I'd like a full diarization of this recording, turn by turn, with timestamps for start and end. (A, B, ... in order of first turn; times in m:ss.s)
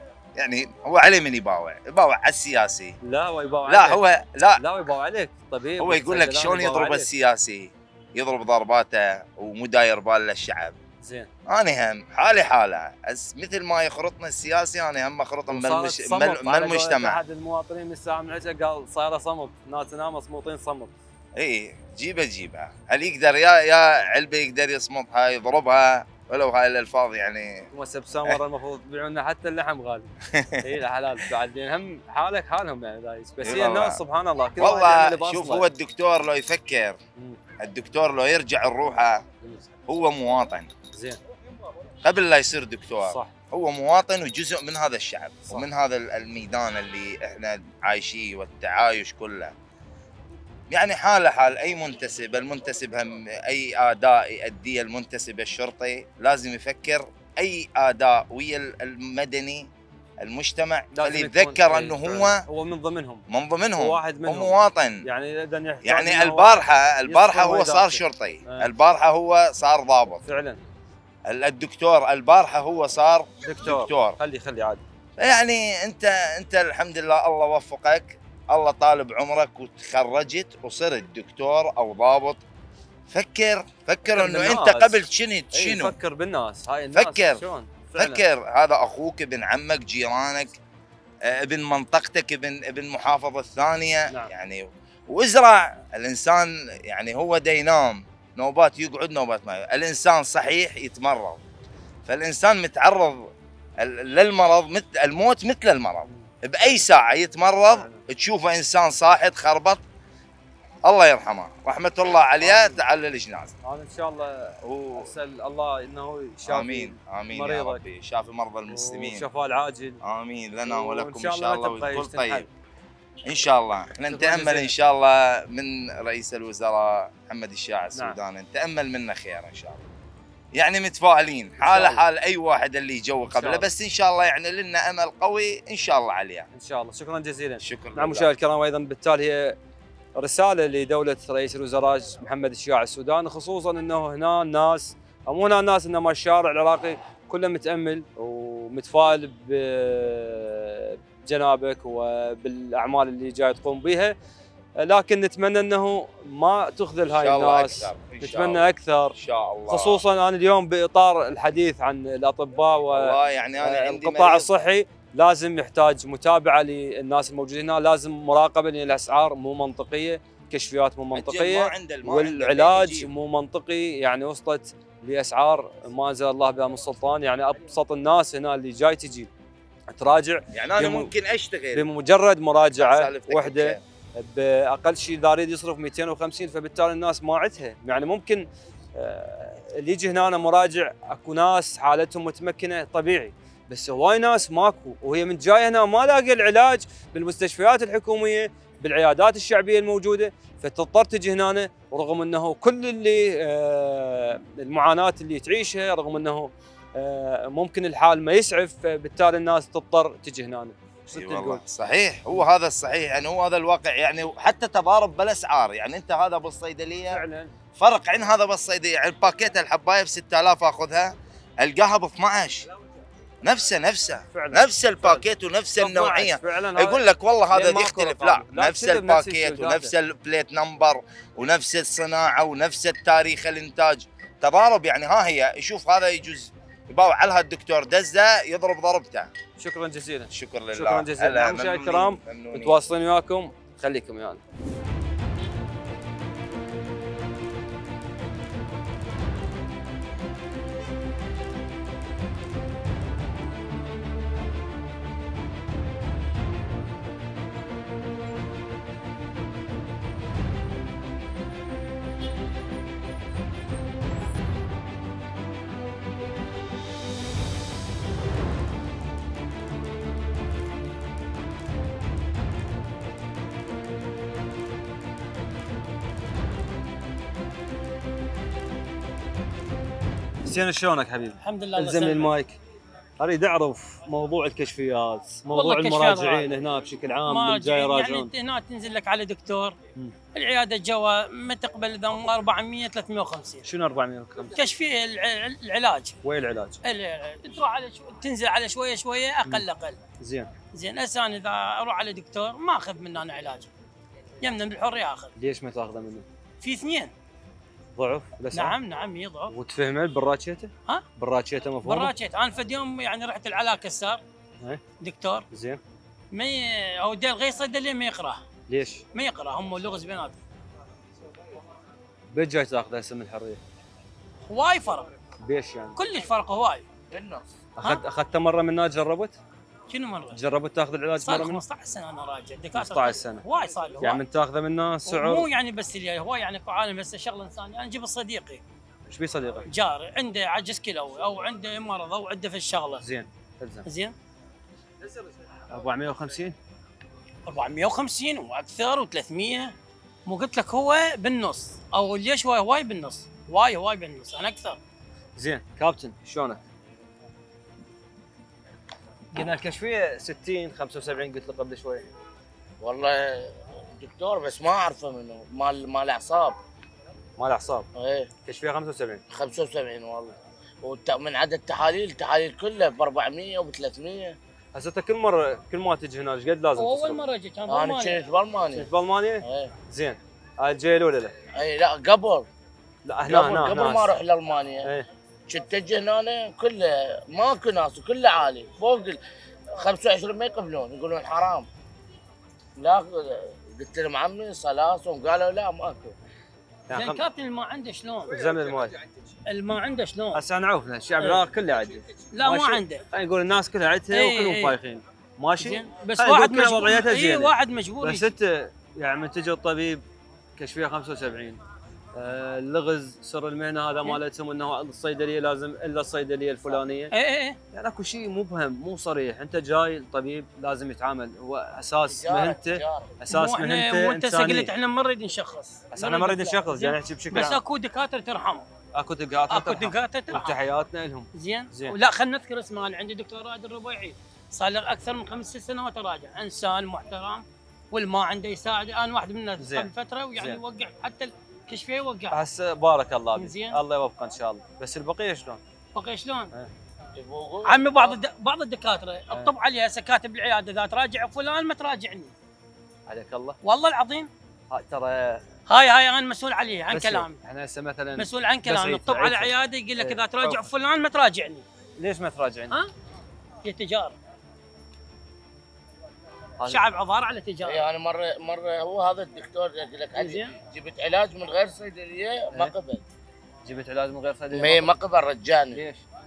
0:00.4-0:03.0 A
0:03.0-0:04.0 B
0:03.7-0:04.6 A
0:04.6-0:07.1 B
0:05.8-0:10.8 A
0:11.0-0:11.3 B
0:11.5-0:17.2 A
0:15.5-0:20.9 B
0:21.4-0:27.6 A
0:27.7-0:35.7 B
0:30.3-0:30.7 A
0:33.4-0:34.0 A
0:34.6-0:37.0 A
0:37.6-0:39.2 A
0:39.9-0:40.8 A
0:40.9-0:41.2 B
0:42.0-0:49.5 A
0:43.0-0:43.3 B
0:50.7-0:59.7 A
1:00.2-1:02.4 A
1:00.9-1:03.2 B
1:03.3-1:05.0 A
1:03.8-1:08.7 B
1:05.8-1:10.2 A
1:10.2-1:10.6 B
1:11.3-1:14.2 A
1:13.4-1:14.8 B
1:15.2-1:22.4 A
1:23.1-1:26.0 A
1:24.1-1:25.0 B
1:25.5-1:28.2 B
1:27.0-1:27.4 A
1:28.0-1:30.6 A
1:31.3-1:41.4 A
1:42.1-1:43.3 A
1:43.8-1:49.8 A
1:46.1-1:47.1 B
1:47.7-1:48.0 B
1:50.9-1:53.6 A
1:52.4-1:52.8 B
1:53.6-1:57.8 B
1:54.6-1:55.1 A
1:56.4-1:59.3 A
1:58.7-2:00.0 B
2:00.0-2:02.5 A
2:00.7-2:02.5 B
2:03.3-2:09.9 A
2:04.1-2:04.7 B
2:10.6-2:16.5 A
2:11.6-2:12.0 B
2:13.3-2:13.7 B
2:16.5-2:19.6 B
2:17.6-2:18.3 A
2:20.2-2:34.2 B
2:34.8-2:39.2 B
2:37.1-2:40.0 A
2:39.7-2:59.3 B
2:42.9-2:44.5 A
2:51.1-2:53.1 A
2:59.9-3:01.1 B
3:00.5-3:01.9 A
3:01.7-3:31.6 B
3:02.8-3:03.8 A
3:31.1-3:37.2 A
3:37.1-3:37.5 B
3:37.8-3:42.7 A
3:43.4-3:59.3 A
3:44.3-3:45.2 B
3:45.8-3:49.9 B
3:59.6-4:04.4 B
4:00.3-4:02.8 A
4:40.4-4:42.6 B
4:41.4-4:42.3 C
4:43.2-4:48.3 B
4:45.5-4:46.5 C
4:47.3-4:49.8 C
4:50.3-4:53.7 C
4:53.6-4:54.6 B
4:54.5-4:56.2 C
4:56.2-4:56.8 B
4:56.8-5:00.0 C
5:00.2-5:00.5 B
5:00.7-5:03.7 C
5:04.4-5:05.3 C
5:05.4-5:06.2 B
5:06.6-5:07.1 C
5:08.0-5:08.8 B
5:08.5-5:09.5 C
5:09.5-5:12.1 B
5:11.8-5:14.2 C
5:15.0-5:15.4 C
5:15.5-5:15.8 B
5:16.3-5:18.4 C
5:18.7-5:19.0 B
5:19.1-5:20.4 C
5:22.3-5:23.6 B
5:24.5-5:25.1 C
5:25.4-5:26.0 B
5:26.0-5:26.8 C
5:27.1-5:27.5 D
5:27.8-5:29.4 B
5:29.9-5:30.4 C
5:30.3-5:31.6 B
5:31.2-5:34.2 C
5:32.7-5:33.4 B
5:34.0-5:35.5 B
5:35.1-5:38.6 C
5:39.1-5:39.7 B
5:39.7-5:43.0 C
5:43.0-5:43.8 B
5:43.8-5:44.1 C
5:45.7-5:46.6 B
5:47.4-5:49.7 C
5:50.3-5:54.8 C
5:55.4-5:56.6 B
5:59.3-6:02.1 B
6:02.8-6:06.6 D
6:07.4-6:07.9 B
6:08.0-6:08.3 D
6:08.4-6:09.2 B
6:09.3-6:14.4 D
6:14.7-6:17.2 B
6:16.8-6:18.2 C
6:17.7-6:18.9 D
6:18.7-6:21.3 B
6:19.4-6:19.7 D
6:21.6-6:22.5 D
6:23.1-6:24.2 B
6:23.3-6:24.9 D
6:25.5-6:29.2 D
6:29.8-6:31.7 D
6:32.8-6:36.2 D
6:36.9-6:37.2 B
6:36.9-6:38.3 C
6:38.3-6:39.0 B
6:39.5-6:40.4 C
6:40.3-6:50.0 B
6:42.3-6:43.0 C
6:44.1-6:44.8 C
6:45.6-6:48.3 C
6:50.6-6:51.6 B
6:52.1-6:57.1 B
6:57.1-6:57.6 C
6:57.7-7:04.7 B
7:02.1-7:03.2 D
7:03.3-7:08.7 C
7:05.9-7:07.6 B
7:09.0-7:12.0 B
7:09.5-7:10.6 C
7:11.3-7:22.4 C
7:19.6-7:20.6 B
7:22.3-7:25.6 B
7:23.4-7:23.8 C
7:26.0-7:26.5 C
7:27.2-7:28.2 D
7:27.6-7:32.3 C
7:33.1-7:33.6 B
7:33.6-7:34.3 C
7:34.7-7:35.4 B
7:35.7-7:37.4 C
7:36.9-7:40.7 B
7:38.2-7:41.6 C
7:42.0-7:42.8 B
7:43.6-7:44.2 C
7:46.6-7:46.9 B
7:46.7-7:47.9 C
7:47.6-7:53.0 D
7:50.1-7:50.5 C
7:53.6-7:55.0 B
7:54.5-7:55.8 D
7:55.7-7:56.0 B